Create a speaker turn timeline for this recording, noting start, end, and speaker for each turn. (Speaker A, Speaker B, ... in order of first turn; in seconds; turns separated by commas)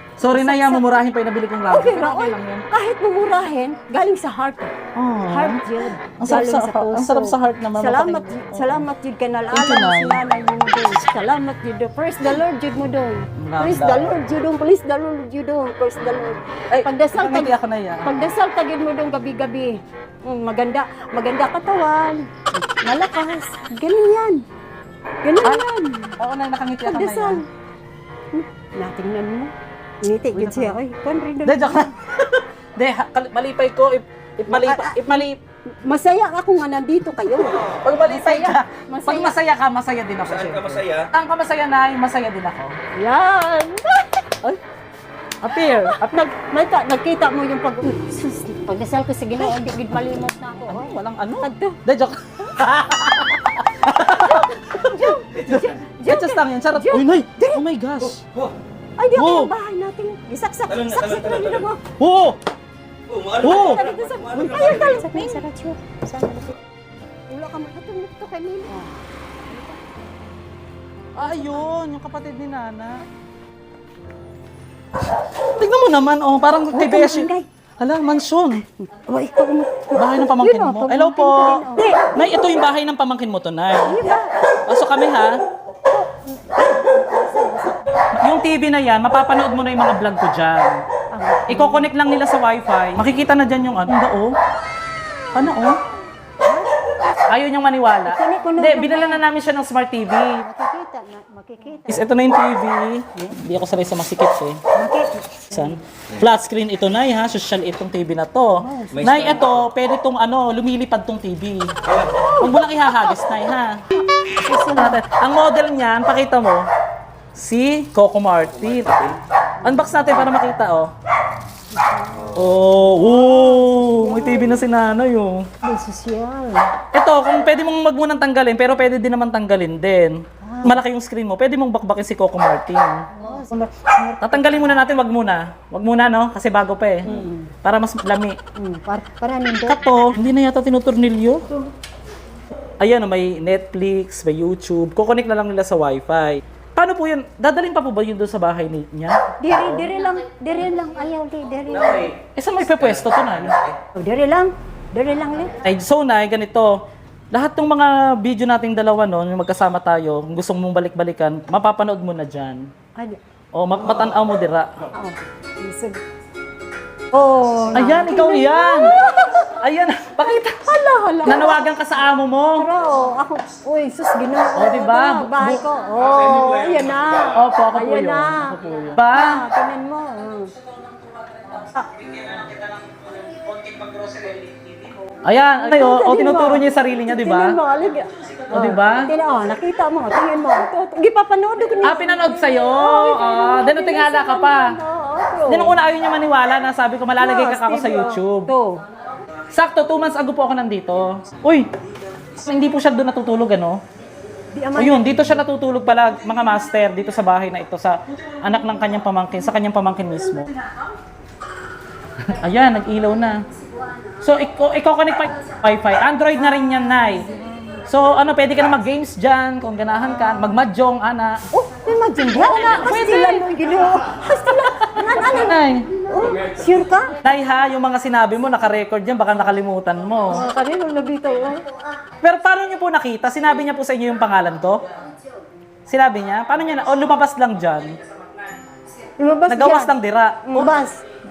Speaker A: 0.2-2.6, Speaker B: 0.2-1.0, Speaker B: 1.7-4.7, Speaker A: 4.9-5.6, Speaker B: 5.3-24.4, Speaker A: 6.2-8.8, Speaker A: 9.5-10.2, Speaker A: 13.4-14.1, Speaker A: 16.7-18.2, Speaker B: 25.2-26.1, Speaker A: 26.2-27.4, Speaker B: 26.8-27.4, Speaker B: 28.3-29.5, Speaker B: 30.0-31.9, Speaker A: 30.3-30.8, Speaker A: 31.4-35.4, Speaker B: 34.5-35.0, Speaker B: 35.8-39.4, Speaker A: 37.6-42.8, Speaker C: 40.4-41.1, Speaker B: 43.0-44.4, Speaker A: 45.4-46.2, Speaker B: 45.5-51.8, Speaker A: 50.7-58.2, Speaker B: 54.2-57.6, Speaker B: 59.0-61.8, Speaker A: 59.1-59.5, Speaker C: 60.7-61.6, Speaker A: 62.0-62.4, Speaker C: 63.1-65.2, Speaker A: 63.4-63.8, Speaker B: 63.4-66.5, Speaker B: 67.3-69.8, Speaker A: 71.2-73.0, Speaker B: 71.2-71.6, Speaker A: 75.4-78.6, Speaker B: 76.7-77.5, Speaker B: 78.8-82.4, Speaker A: 79.9-84.1, Speaker B: 83.8-84.7, Speaker A: 84.6-85.4, Speaker B: 85.9-87.8, Speaker A: 88.2-90.8, Speaker B: 91.1-91.9, Speaker A: 91.5-94.3, Speaker A: 95.3-95.8, Speaker B: 96.4-96.7, Speaker A: 97.3-100.4, Speaker B: 98.0-99.2, Speaker B: 100.4-102.2, Speaker A: 101.9-104.6, Speaker B: 104.8-105.8, Speaker A: 105.5-111.7, Speaker B: 108.6-109.5, Speaker B: 112.2-112.7, Speaker A: 112.4-113.8, Speaker B: 114.4-115.0, Speaker A: 114.6-116.6, Speaker A: 117.3-119.1, Speaker A: 119.6-120.9, Speaker B: 119.7-120.2, Speaker B: 121.7-122.4, Speaker A: 122.3-125.4, Speaker B: 122.9-124.6, Speaker B: 125.6-126.7, Speaker A: 126.9-133.1, Speaker B: 130.4-130.8, Speaker B: 133.1-134.7, Speaker A: 134.2-138.4, Speaker B: 137.1-137.5, Speaker B: 138.6-139.8, Speaker A: 139.7-141.4, Speaker A: 142.8-149.9, Speaker B: 149.4-152.1, Speaker A: 152.3-153.6, Speaker B: 154.0-155.6, Speaker A: 155.6-156.8, Speaker A: 157.3-162.7, Speaker A: 163.5-164.7, Speaker B: 165.0-166.0, Speaker B: 167.1-169.6, Speaker A: 167.7-170.7, Speaker B: 170.2-171.8, Speaker A: 171.2-172.7, Speaker B: 172.6-180.5, Speaker A: 174.5-175.7, Speaker A: 177.3-179.4, Speaker A: 180.6-187.6, Speaker B: 185.6-195.8, Speaker A: 188.5-189.1, Speaker A: 191.8-194.8, Speaker A: 195.5-198.5, Speaker B: 197.2-198.8, Speaker A: 199.5-201.7, Speaker A: 202.3-203.8, Speaker B: 204.5-205.4, Speaker A: 204.8-210.5, Speaker A: 212.2-213.4, Speaker B: 213.5-214.2, Speaker A: 214.2-217.3, Speaker B: 216.3-217.9, Speaker A: 217.9-221.4, Speaker B: 220.0-220.6, Speaker B: 221.5-227.2, Speaker A: 222.3-223.5, Speaker A: 224.7-225.9, Speaker A: 227.2-230.5, Speaker B: 230.3-232.0, Speaker A: 232.2-234.9, Speaker B: 235.0-235.4, Speaker A: 235.9-238.0, Speaker B: 239.0-241.0, Speaker A: 239.5-240.8